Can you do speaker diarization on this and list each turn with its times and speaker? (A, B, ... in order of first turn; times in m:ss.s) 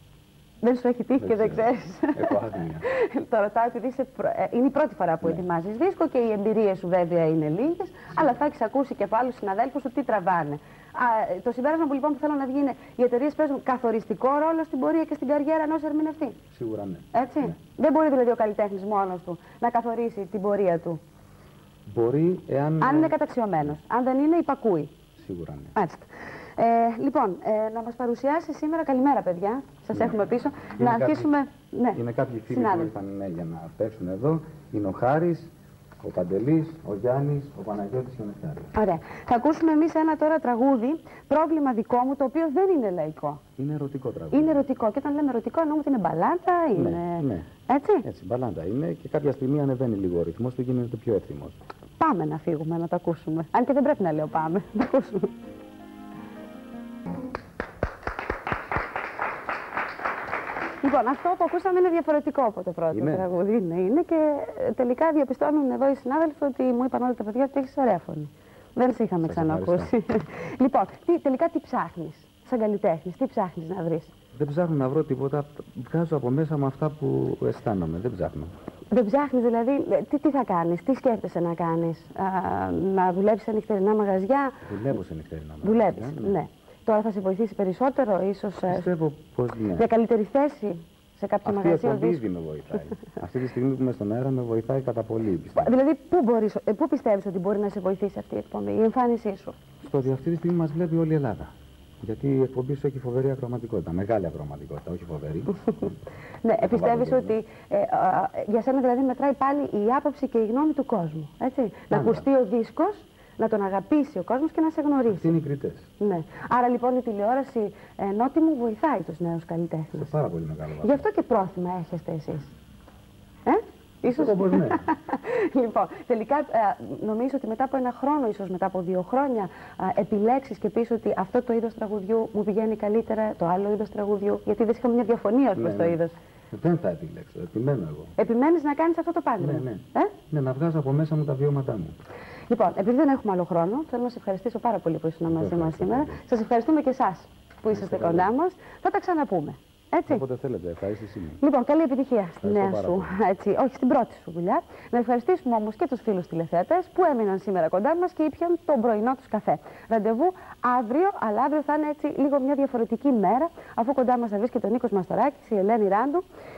0:00.6-0:16.4 A
0:01.2-0:02.9 B
0:16.5-0:17.5 B
0:17.1-0:21.0 A
0:21.9-0:23.2 B
0:22.8-0:24.9 A
0:25.2-0:25.7 B
0:25.7-0:32.9 A
0:29.9-0:31.3 B
0:31.9-0:38.7 B
0:38.7-0:43.4 A
0:43.6-0:44.6 B
0:44.3-0:48.0 A
0:46.7-0:47.5 B
0:48.0-0:51.6 B
0:52.0-0:55.3 A
1:00.8-1:14.1 A
1:02.9-1:03.3 B
1:09.2-1:09.9 B
1:14.3-1:18.5 B
1:18.9-1:24.6 A
1:24.6-1:26.4 B
1:25.6-1:28.9 A
1:28.7-1:29.9 B
1:29.7-1:32.2 A
1:31.4-1:35.8 B
1:35.5-1:39.6 A
1:39.8-1:46.0 B
1:46.4-1:55.3 A
1:46.6-1:47.4 B
1:51.9-1:52.2 B
1:55.1-1:55.9 B
1:56.0-2:00.1 A
1:59.9-2:01.0 B
2:00.8-2:02.5 A
2:03.4-2:16.2 A
2:04.1-2:04.9 B
2:15.5-2:18.1 B
2:18.2-2:20.1 A
2:19.4-2:22.0 B
2:22.5-2:30.2 A
2:25.3-2:26.2 B
2:27.7-2:28.3 B
2:30.1-2:31.4 B
2:31.4-2:46.2 A
2:32.4-2:33.2 B